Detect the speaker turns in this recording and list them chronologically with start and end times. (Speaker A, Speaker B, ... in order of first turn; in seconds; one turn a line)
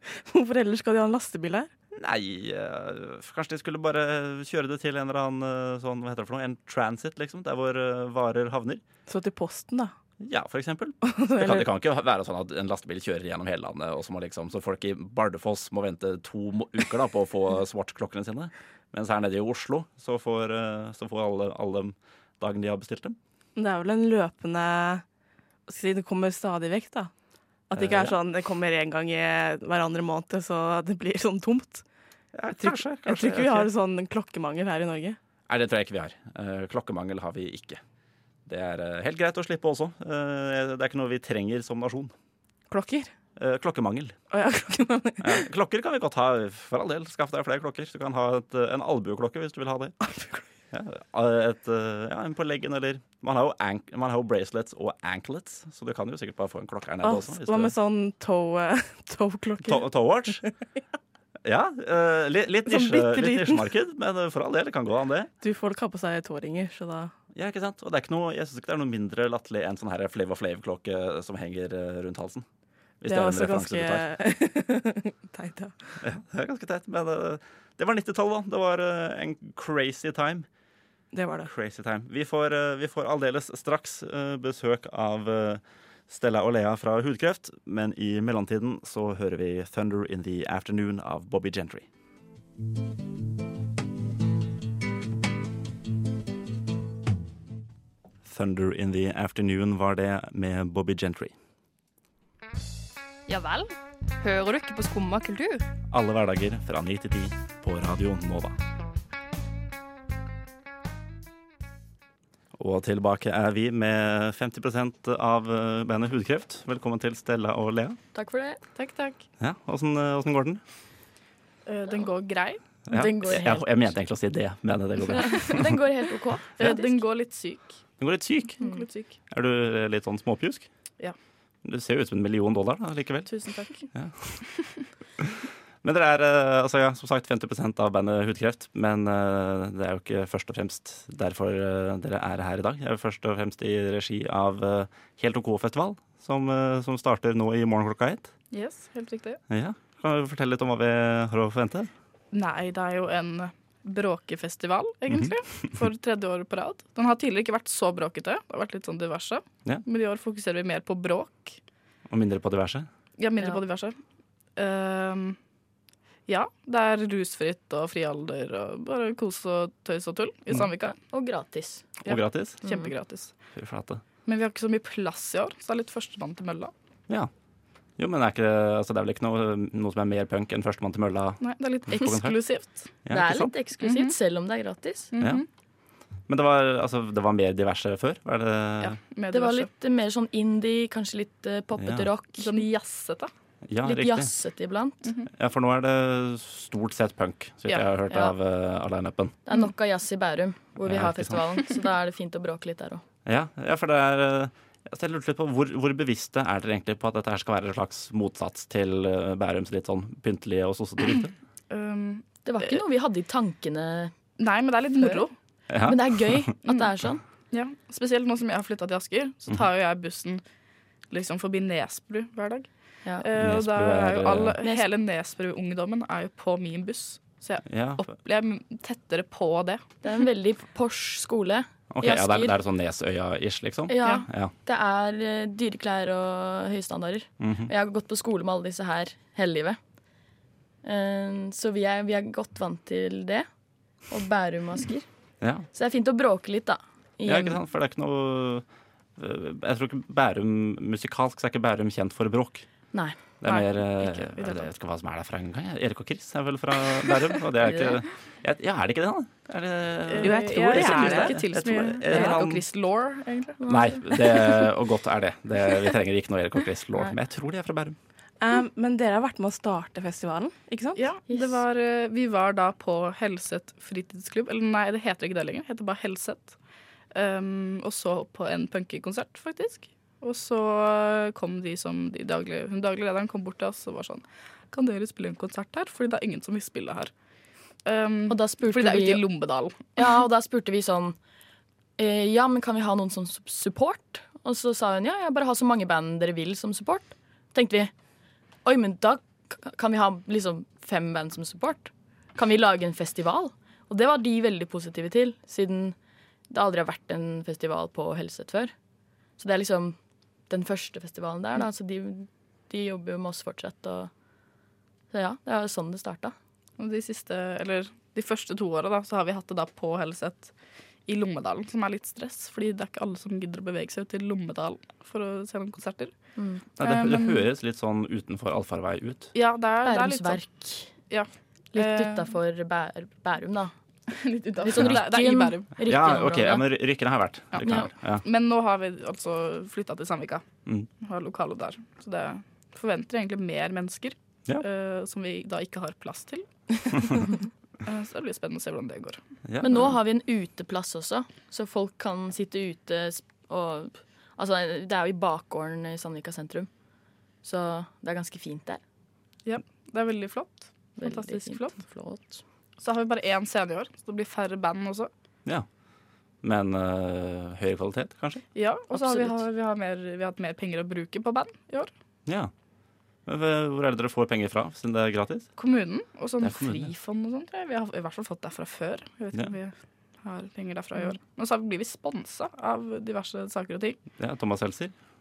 Speaker A: 0.1-1.7
Speaker B: 1.9-8.8
Speaker A: 9.1-9.9
Speaker B: 10.2-23.2
Speaker A: 11.0-11.7
Speaker A: 23.6-25.0
Speaker A: 25.7-27.1
Speaker A: 27.7-31.8
Speaker B: 27.7-28.2
Speaker B: 32.3-33.7
Speaker A: 32.6-35.2
Speaker B: 35.5-37.8
Speaker B: 38.5-42.1
Speaker A: 42.7-43.1
Speaker B: 43.4-44.1
Speaker A: 44.3-45.5
Speaker B: 45.2-50.0
Speaker A: 50.0-50.4
Speaker B: 50.7-57.7
Speaker A: 57.0-59.9
Speaker B: 59.6-60.4
Speaker B: 61.4-65.3
Speaker A: 62.6-63.7
Speaker A: 65.4-67.1
Speaker B: 67.3-72.5
Speaker B: 73.0-74.0
Speaker A: 73.0-75.7
Speaker B: 76.0-80.5
Speaker A: 81.1-81.5
Speaker B: 81.4-91.8
Speaker B: 98.2-101.3
Speaker C: 104.2-105.6
Speaker B: 105.9-108.5
Speaker B: 112.5-118.0
Speaker C: 118.1-118.6
Speaker D: 118.8-119.2
Speaker B: 119.4-120.6
Speaker D: 121.7-122.6
Speaker B: 122.9-125.8
Speaker C: 122.9-123.8
Speaker C: 125.1-127.0
Speaker D: 126.6-127.8
Speaker B: 128.0-128.6
Speaker D: 128.6-129.1
Speaker B: 129.3-130.7
Speaker B: 131.6-133.3
Speaker D: 133.3-133.8
Speaker B: 133.9-134.4
Speaker B: 135.2-148.3
Speaker D: 148.5-149.4
Speaker B: 149.5-151.9
Speaker D: 152.3-161.6
Speaker B: 155.1-155.3
Speaker B: 162.1-162.9
Speaker D: 163.2-164.0
Speaker D: 164.6-165.4
Speaker D: 166.3-170.9
Speaker C: 170.9-171.8
Speaker B: 172.0-172.6
Speaker D: 172.1-173.3
Speaker C: 172.6-172.9
Speaker B: 173.5-174.0
Speaker D: 174.2-176.7
Speaker B: 178.0-182.4
Speaker D: 181.4-182.9
Speaker B: 183.0-183.5
Speaker C: 183.1-185.1
Speaker D: 183.8-184.1
Speaker D: 185.1-185.4
Speaker B: 185.2-185.4
Speaker B: 186.3-189.0
Speaker D: 188.8-189.7
Speaker C: 189.3-192.6
Speaker B: 191.8-192.1
Speaker D: 192.4-193.3
Speaker B: 193.7-194.3
Speaker C: 193.8-195.1
Speaker B: 195.3-199.4
Speaker C: 198.1-198.3
Speaker C: 199.4-203.0
Speaker B: 200.8-201.4
Speaker B: 203.2-211.3
Speaker D: 211.7-212.8
Speaker C: 212.4-214.1
Speaker D: 214.4-215.3
Speaker B: 215.7-216.5
Speaker C: 215.8-217.2
Speaker D: 217.5-220.4
Speaker D: 221.1-222.7
Speaker D: 223.2-229.8
Speaker B: 223.4-224.6
Speaker C: 224.6-224.9
Speaker B: 227.6-228.0
Speaker C: 230.0-232.6
Speaker B: 231.9-234.5
Speaker C: 233.9-239.8
Speaker B: 237.4-237.7
Speaker C: 240.8-243.5
Speaker C: 244.1-245.1
Speaker B: 245.4-245.7
Speaker C: 245.7-247.6
Speaker B: 247.2-248.6
Speaker B: 249.2-252.7
Speaker B: 253.4-262.6
Speaker D: 253.4-254.7
Speaker C: 257.7-258.0
Speaker D: 260.1-263.6
Speaker A: 260.2-261.4
Speaker C: 262.1-262.3
Speaker C: 263.6-264.6
Speaker B: 263.7-267.9
Speaker A: 268.4-271.1
Speaker D: 271.0-276.6
Speaker C: 271.3-271.6
Speaker D: 277.1-287.1
Speaker D: 287.8-289.9
Speaker C: 288.3-289.2
Speaker C: 289.9-291.2
Speaker C: 292.0-297.9
Speaker C: 298.6-305.9
Speaker C: 306.5-308.7
Speaker C: 309.4-310.0
Speaker C: 310.5-314.1
Speaker C: 315.1-316.3
Speaker D: 316.8-320.5
Speaker D: 321.1-326.1
Speaker C: 326.4-326.6
Speaker B: 326.8-329.3
Speaker D: 326.8-327.4
Speaker D: 329.3-330.4
Speaker C: 329.8-330.9
Speaker D: 331.1-332.3
Speaker C: 331.7-333.7
Speaker D: 334.1-335.7
Speaker C: 334.6-336.7
Speaker B: 335.8-338.2
Speaker D: 337.5-340.4
Speaker C: 337.6-337.9
Speaker D: 341.0-349.2
Speaker B: 349.4-349.9
Speaker C: 349.6-356.7
Speaker C: 357.4-358.8
Speaker D: 359.4-361.8
Speaker C: 361.0-362.4
Speaker D: 362.8-365.1
Speaker B: 366.4-368.4
Speaker D: 368.5-371.9
Speaker C: 368.9-369.4
Speaker B: 372.2-372.5
Speaker B: 373.2-375.5
Speaker D: 375.6-384.0
Speaker B: 376.4-376.9
Speaker B: 384.2-384.9